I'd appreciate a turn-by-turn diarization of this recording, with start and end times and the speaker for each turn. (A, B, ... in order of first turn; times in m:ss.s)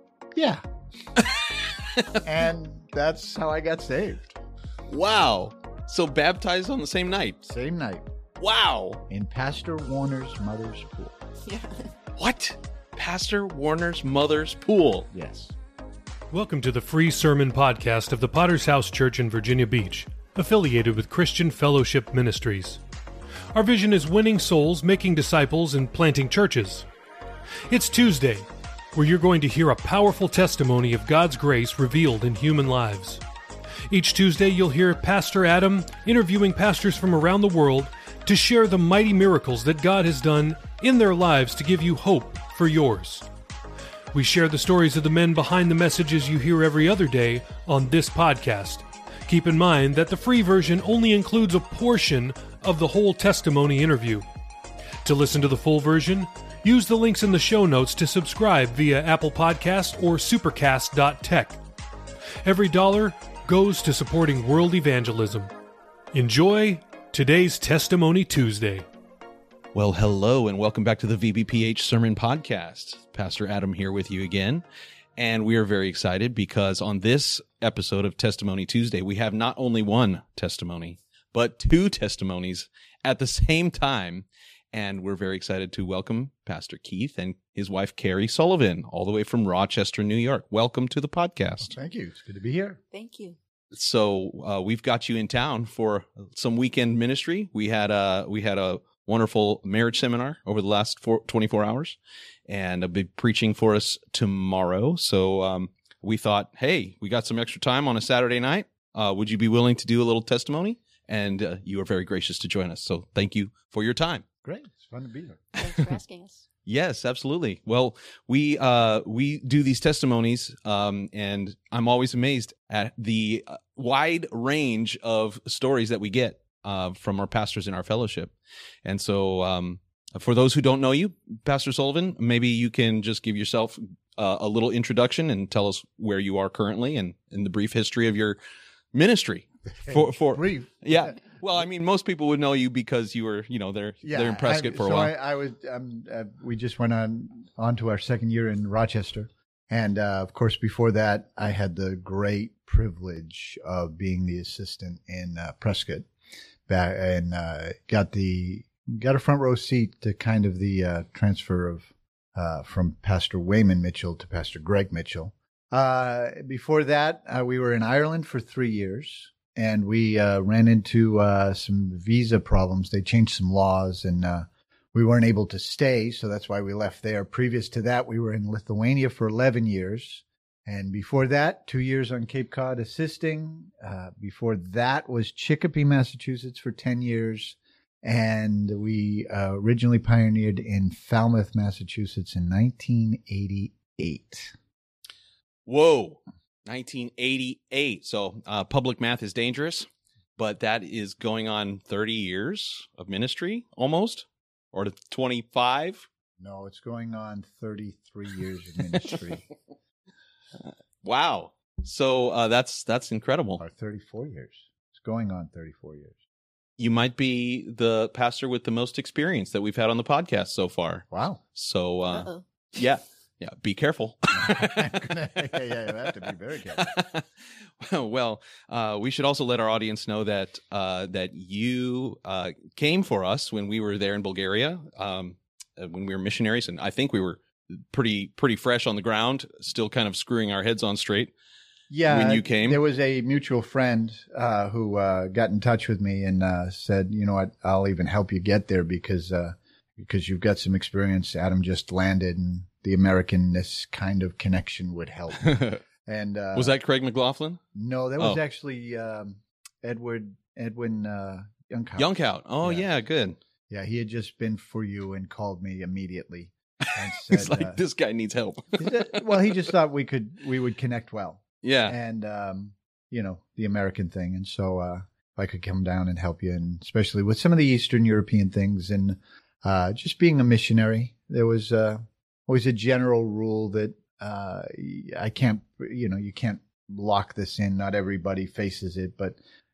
0:00.4-0:00.6 A
0:01.2-0:02.2 B
0:02.2-0:04.4 A
0:04.9-0:07.4 B
0:07.4-0:08.1 A
0:08.4-0:09.0 B
0:09.1-0:11.2 A
0:11.5-0:11.9 C
0:12.2-0:15.1 B
0:15.1-0:15.5 A
0:16.3-0:22.8 D
0:23.5-0:26.9 D
0:27.7-0:33.2 D
0:33.9-0:43.3 D
0:44.1-0:54.2 D
0:55.0-1:01.6 D
1:02.4-1:05.5 D
1:06.1-1:08.9 D
1:09.7-1:14.6 B
1:15.2-1:31.7 B
1:31.6-1:32.8 A
1:32.9-1:33.4 C
1:33.7-1:54.2 B
1:54.4-1:55.4 A
1:55.6-1:56.4 C
1:56.7-2:18.4 B
2:18.9-2:25.1 B
2:19.8-2:21.2 A
2:24.0-2:36.1 A
2:36.7-3:14.5 A
3:15.7-3:26.1 B
3:26.4-3:29.5 A
3:30.6-3:33.6 B
3:33.6-3:36.2 A
3:36.8-3:44.9 B
3:41.1-3:41.4 A
3:42.1-3:42.4 C
3:44.3-3:46.9 A
3:46.8-4:01.3 B
4:01.9-4:16.8 A
4:02.1-4:02.8 B
4:15.4-4:15.8 B
4:16.5-4:17.6 B
4:17.7-4:22.1 A
4:22.0-4:23.4 B
4:22.6-4:22.9 A
4:23.7-4:27.8 A
4:27.0-4:29.3 B
4:28.8-4:49.4 A
4:31.6-4:32.0 B